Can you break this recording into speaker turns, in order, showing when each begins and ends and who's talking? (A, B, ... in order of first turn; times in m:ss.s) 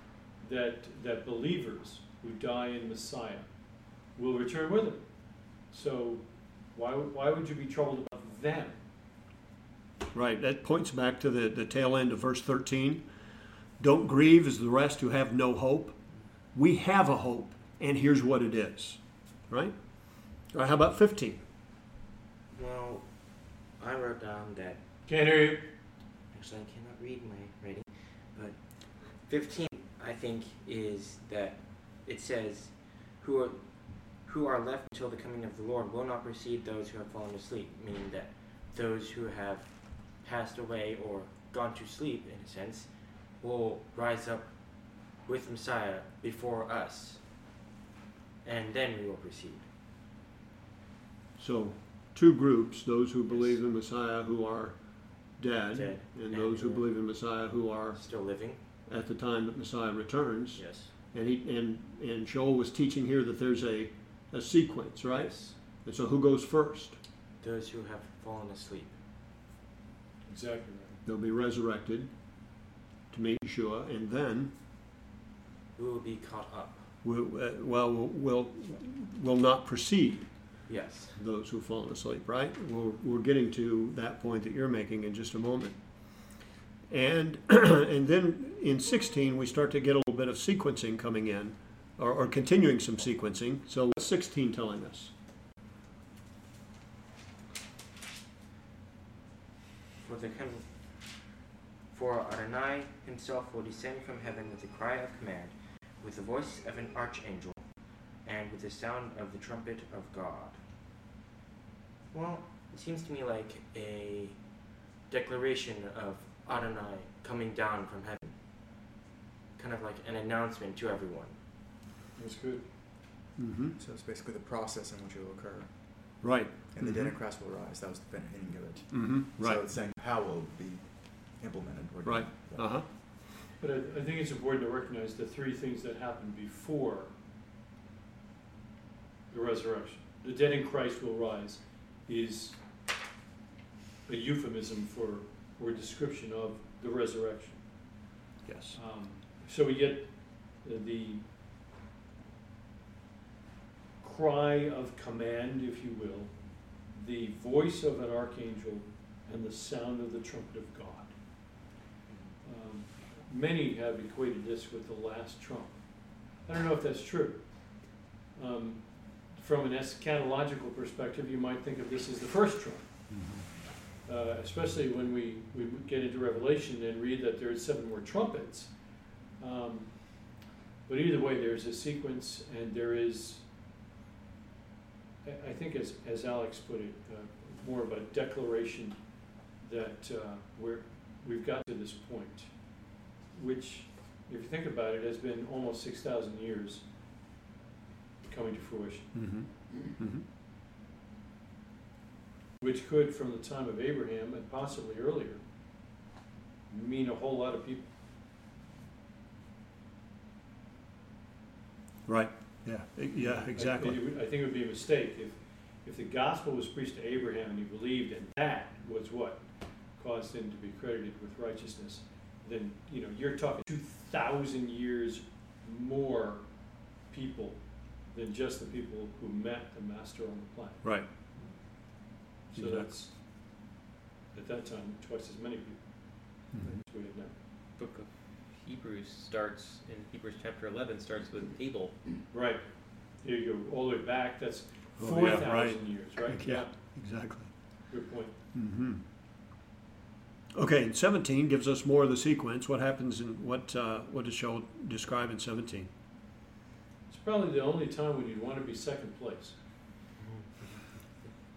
0:00.4-0:08.8 A
0:10.1-0:16.0 B
0:16.5-0:21.4 B
0:22.5-0:24.8 C
0:25.1-0:25.7 A
0:26.3-0:47.3 C
0:48.4-0:49.6 C
0:51.4-1:07.0 B
0:53.3-0:53.6 C
0:55.7-0:58.6 C
1:00.5-1:01.0 C
1:05.1-1:05.8 C
1:07.4-1:08.9 C
1:10.2-1:11.0 A
1:11.0-1:12.6 B
1:13.1-1:14.5 B
1:15.7-1:16.9 C
1:17.0-1:35.1 B
1:20.7-1:21.2 C
1:40.0-1:41.3 C
1:41.9-1:50.6 C
1:52.1-1:58.4 C
1:59.5-2:01.4 C
2:02.2-2:02.6 A
2:03.4-2:03.8 B
2:03.8-2:12.8 D
2:06.2-2:07.2 B
2:08.9-2:09.7 B
2:12.0-2:13.3 B
2:13.6-2:17.1 A
2:19.3-2:22.6 A
2:24.0-2:28.0 A
2:28.4-2:28.8 B
2:28.7-2:31.2 A
2:34.0-2:41.2 A
2:42.1-2:42.4 C
2:42.4-2:53.4 A
2:53.1-2:53.5 B
2:54.0-3:03.5 A
3:05.2-3:16.9 A
3:18.2-3:19.5 A
3:19.1-3:20.2 B
3:22.6-3:25.4 A
3:26.7-3:27.9 A
3:32.0-3:34.0 B
3:33.2-3:50.9 A
3:50.8-3:51.1 B
3:52.5-3:53.2 A
3:52.5-3:53.0 B
3:54.3-3:57.3 A
3:56.5-3:56.8 B
3:57.8-4:02.1 E
4:02.3-4:07.3 A
4:05.0-4:08.0 B
4:07.9-4:08.3 A
4:08.5-4:09.0 B
4:10.5-4:15.9 B
4:17.1-4:19.6 A
4:20.2-4:21.2 C